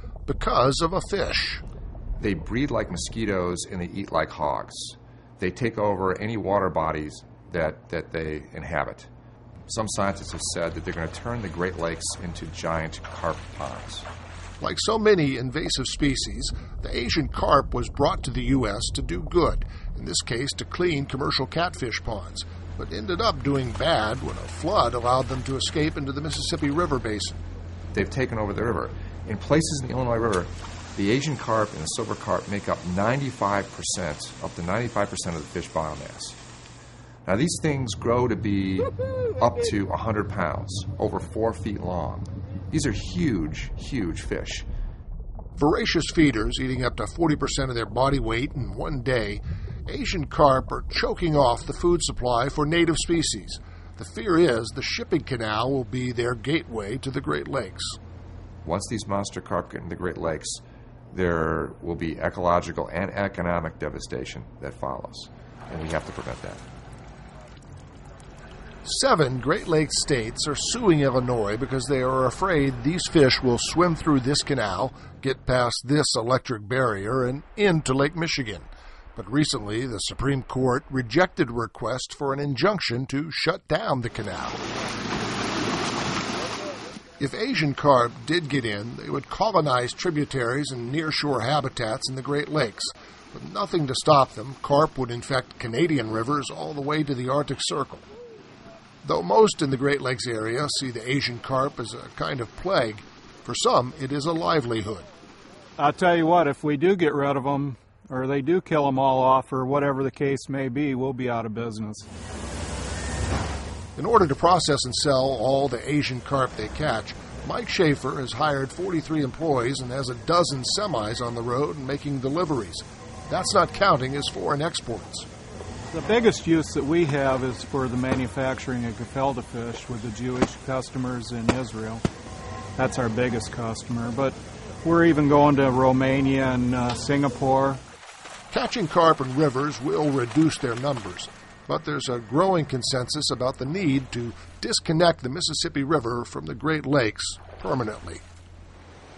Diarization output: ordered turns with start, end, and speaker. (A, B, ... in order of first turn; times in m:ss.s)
0:00.3-0:01.6 A
0:02.2-0:09.1 B
0:09.7-0:14.1 B
0:14.6-0:27.4 A
0:27.9-0:36.4 B
0:37.3-0:44.7 B
0:45.6-0:58.0 A
0:58.6-1:06.6 B
1:08.8-1:24.6 A
1:27.2-1:38.1 A
1:39.0-1:45.1 A
1:45.8-1:52.1 C
1:54.0-2:05.3 A
2:05.9-2:12.0 C
2:12.8-2:17.8 C
2:18.5-2:28.2 A